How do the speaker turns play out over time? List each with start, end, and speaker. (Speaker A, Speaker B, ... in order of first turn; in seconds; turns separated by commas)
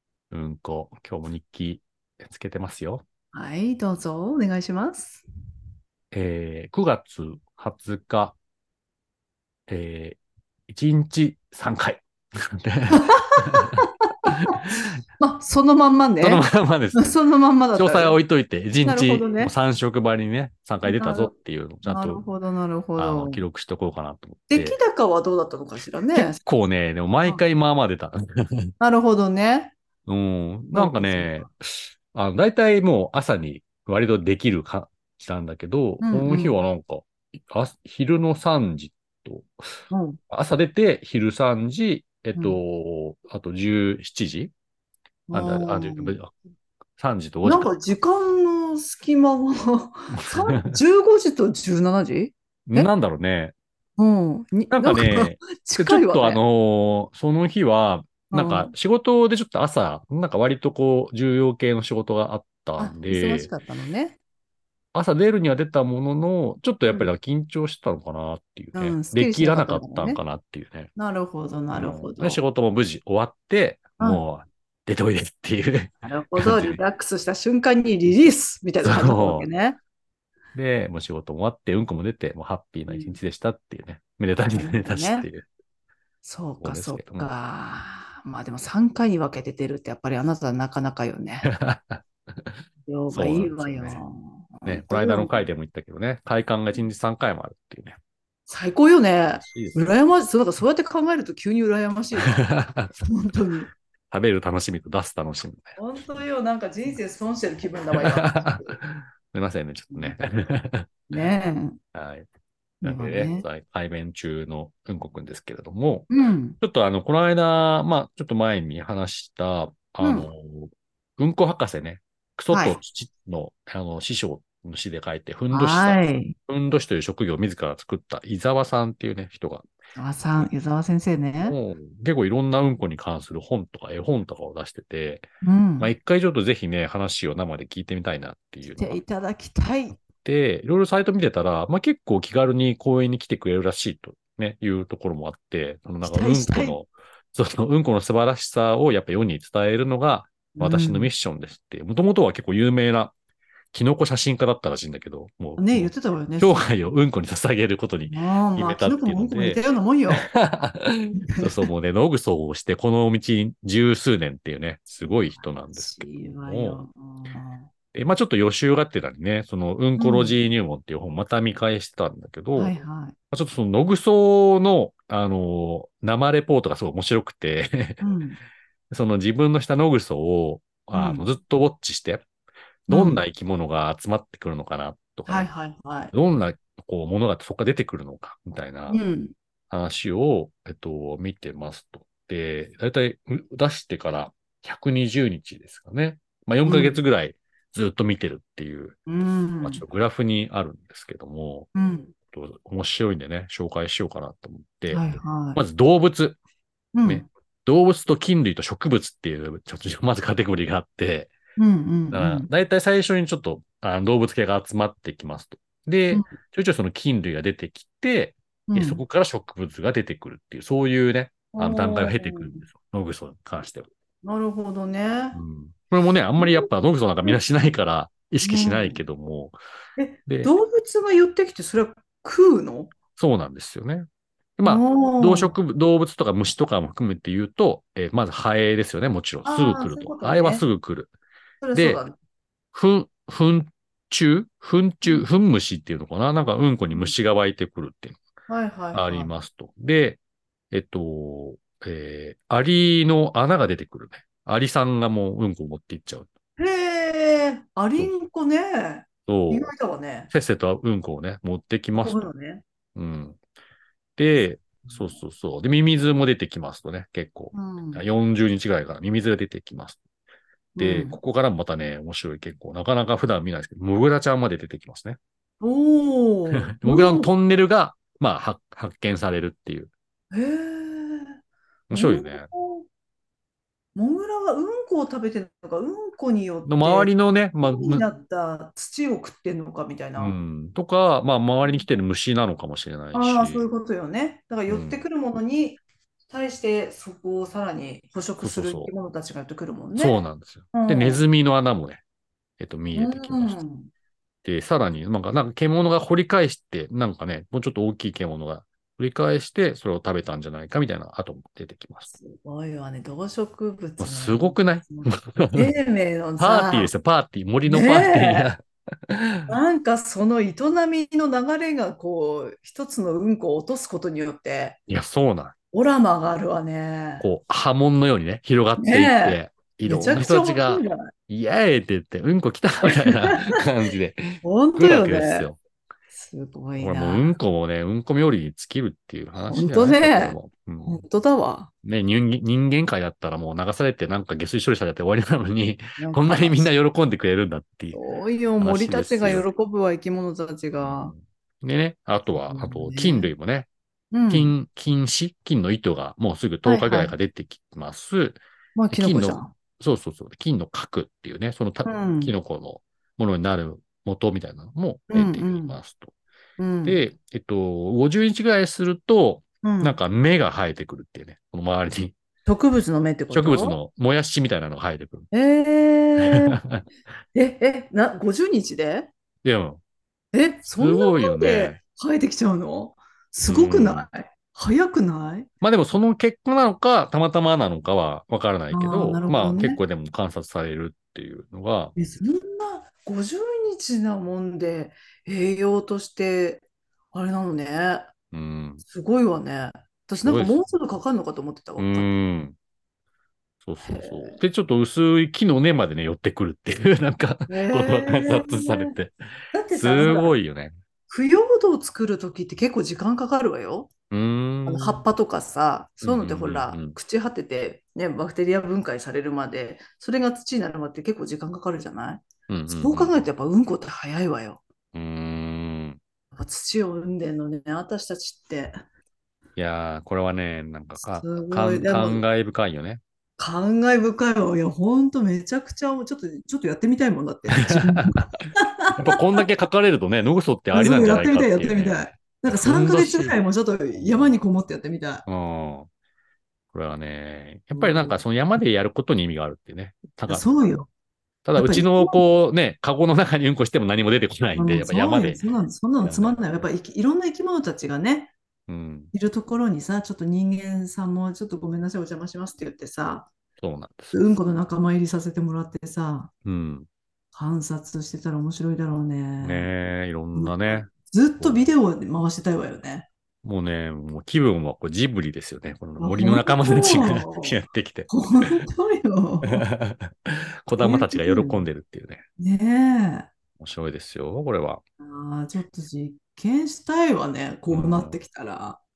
Speaker A: 0.3-3.0, Speaker B: 3.3-5.2, Speaker A: 6.1-8.4, Speaker A: 9.7-14.8, Speaker B: 12.9-14.1, Speaker B: 15.2-18.2, Speaker A: 16.2-17.2, Speaker A: 17.8-22.2, Speaker B: 18.8-19.5, Speaker B: 20.9-21.3, Speaker B: 21.8-23.4, Speaker A: 22.9-24.8, Speaker B: 24.5-26.4, Speaker A: 26.1-28.7, Speaker B: 28.8-29.7, Speaker A: 30.1-39.5, Speaker B: 30.7-31.5, Speaker B: 36.0-36.6, Speaker B: 39.9-40.2, Speaker A: 40.3-44.5, Speaker B: 45.3-46.2, Speaker A: 45.3-46.3, Speaker A: 47.0-47.7, Speaker B: 47.4-52.9, Speaker A: 50.1-50.8, Speaker A: 52.7-53.5, Speaker B: 54.0-56.4, Speaker A: 54.7-63.5, Speaker B: 58.3-58.7, Speaker B: 62.8-64.2, Speaker A: 64.9-70.9, Speaker B: 68.7-70.2, Speaker B: 71.0-72.4, Speaker A: 71.7-76.8, Speaker B: 74.0-74.2, Speaker B: 76.0-79.8, Speaker A: 78.8-79.5, Speaker A: 80.5-85.5, Speaker B: 82.9-83.2, Speaker B: 84.5-85.3, Speaker B: 86.2-91.5, Speaker A: 86.6-87.3, Speaker A: 91.4-92.6, Speaker B: 92.9-95.5, Speaker A: 93.1-94.0, Speaker A: 94.6-98.0, Speaker B: 98.5-103.7, Speaker A: 99.4-99.8, Speaker A: 102.2-102.9, Speaker A: 104.1-105.8, Speaker B: 105.8-108.8, Speaker A: 108.1-110.9, Speaker B: 109.9-110.2, Speaker B: 111.1-111.8, Speaker A: 111.9-112.2, Speaker B: 112.8-113.5, Speaker A: 112.8-129.7, Speaker B: 116.1-116.6, Speaker B: 120.0-120.3, Speaker B: 122.5-122.8, Speaker B: 125.5-126.3, Speaker B: 129.9-131.6, Speaker A: 131.4-135.3, Speaker B: 135.4-135.9, Speaker A: 135.8-139.0, Speaker B: 138.6-140.0, Speaker A: 140.2-153.1, Speaker B: 146.0-146.8, Speaker B: 150.5-151.1, Speaker A: 153.7-159.6, Speaker B: 155.6-156.7, Speaker B: 158.1-160.3, Speaker A: 160.2-166.8, Speaker B: 161.3-161.7, Speaker B: 165.0-167.7, Speaker A: 167.9-172.8, Speaker B: 170.0-170.4, Speaker B: 172.5-173.2, Speaker A: 173.3-178.0, Speaker B: 178.0-178.4, Speaker A: 178.9-182.2, Speaker B: 180.9-181.2, Speaker A: 182.9-185.5, Speaker B: 182.9-183.2, Speaker B: 185.3-186.1, Speaker A: 186.1-189.0, Speaker B: 188.9-189.3, Speaker A: 189.7-199.0, Speaker B: 196.7-197.0, Speaker B: 199.1-199.8, Speaker A: 199.6-201.7, Speaker B: 201.7-202.1, Speaker A: 202.3-206.4, Speaker B: 204.9-205.6, Speaker B: 206.9-207.3, Speaker A: 207.0-211.3, Speaker B: 211.6-212.5, Speaker A: 212.1-223.9, Speaker B: 218.7-219.0, Speaker B: 221.5-222.6, Speaker B: 224.2-225.4, Speaker A: 225.3-229.6, Speaker B: 226.3-226.7, Speaker B: 228.4-229.0, Speaker B: 230.0-232.9, Speaker A: 230.3-230.5, Speaker A: 233.2-241.1, Speaker B: 234.7-235.6, Speaker B: 239.4-240.6, Speaker B: 241.6-242.2, Speaker A: 241.7-242.0, Speaker A: 242.7-248.2, Speaker B: 248.5-249.3, Speaker A: 248.9-256.3, Speaker B: 256.6-260.3, Speaker A: 259.3-259.7, Speaker A: 260.3-262.3, Speaker B: 262.0-262.6, Speaker A: 262.9-263.4, Speaker A: 264.2-270.0, Speaker B: 264.9-265.1, Speaker B: 267.5-268.0, Speaker B: 270.8-271.2, Speaker A: 270.8-275.2, Speaker B: 275.6-277.3, Speaker A: 276.6-279.9, Speaker B: 280.3-281.4, Speaker A: 281.9-282.5, Speaker B: 281.9-282.9, Speaker B: 283.9-290.3, Speaker A: 286.6-288.1, Speaker A: 290.2-293.7, Speaker B: 293.1-300.2, Speaker A: 294.7-295.0, Speaker A: 298.4-298.9, Speaker A: 299.9-302.0, Speaker B: 300.7-301.2, Speaker A: 302.6-303.6, Speaker B: 302.9-303.9, Speaker A: 304.4-312.1, Speaker B: 312.1-316.9, Speaker A: 314.0-315.7, Speaker A: 316.4-319.5, Speaker B: 317.7-318.5, Speaker B: 319.5-324.8, Speaker A: 324.9-325.5, Speaker B: 325.7-327.3, Speaker A: 327.2-335.6, Speaker B: 328.8-331.1, Speaker B: 332.9-333.4, Speaker B: 334.4-335.5, Speaker B: 336.1-337.3, Speaker A: 336.8-341.0, Speaker B: 339.5-341.7, Speaker A: 341.8-348.0, Speaker B: 346.0-346.7, Speaker B: 347.9-351.1, Speaker A: 348.6-349.4, Speaker A: 350.8-353.7, Speaker B: 352.5-353.3, Speaker B: 354.1-354.5, Speaker A: 354.3-366.1, Speaker B: 356.6-357.1, Speaker B: 358.8-359.5, Speaker B: 361.8-362.3, Speaker B: 365.1-365.8, Speaker B: 366.6-367.0, Speaker A: 366.8-372.1, Speaker B: 369.6-370.0, Speaker B: 372.4-373.8, Speaker A: 373.3-375.3, Speaker B: 375.3-376.6, Speaker A: 376.3-376.9, Speaker B: 377.3-379.1, Speaker A: 379.4-379.8, Speaker B: 380.3-385.5, Speaker A: 380.8-381.8, Speaker A: 383.4-384.1, Speaker A: 385.6-391.9, Speaker B: 388.7-389.8, Speaker B: 391.9-398.1, Speaker A: 398.3-398.8, Speaker B: 398.8-402.1, Speaker A: 400.2-400.6, Speaker A: 401.8-402.6, Speaker A: 403.6-409.1, Speaker B: 403.8-404.4, Speaker B: 407.5-408.9, Speaker B: 409.5-410.3, Speaker A: 409.7-410.8, Speaker B: 411.1-413.9, Speaker A: 414.1-415.1, Speaker B: 414.6-424.6, Speaker A: 416.0-417.0, Speaker A: 422.5-423.3, Speaker A: 424.9-426.0, Speaker B: 426.3-428.8, Speaker A: 429.6-433.0, Speaker B: 431.0-432.2, Speaker B: 433.4-439.2, Speaker A: 437.6-438.2, Speaker A: 439.0-444.4, Speaker B: 440.7-445.2, Speaker A: 445.2-445.9, Speaker A: 446.7-450.6, Speaker B: 447.7-448.2, Speaker B: 450.3-450.9, Speaker A: 451.4-456.5, Speaker B: 451.6-452.2, Speaker B: 454.5-458.3, Speaker A: 458.7-459.1, Speaker B: 459.1-463.3, Speaker A: 463.6-464.2, Speaker B: 464.1-466.3, Speaker A: 466.4-466.9, Speaker B: 467.3-469.7, Speaker A: 469.4-470.9, Speaker B: 470.3-473.1, Speaker A: 471.4-471.7, Speaker A: 473.4-478.6, Speaker B: 476.0-479.6, Speaker A: 479.4-482.2, Speaker B: 480.8-481.7, Speaker B: 482.4-483.3, Speaker A: 483.6-484.8, Speaker B: 485.0-488.8, Speaker A: 487.7-488.2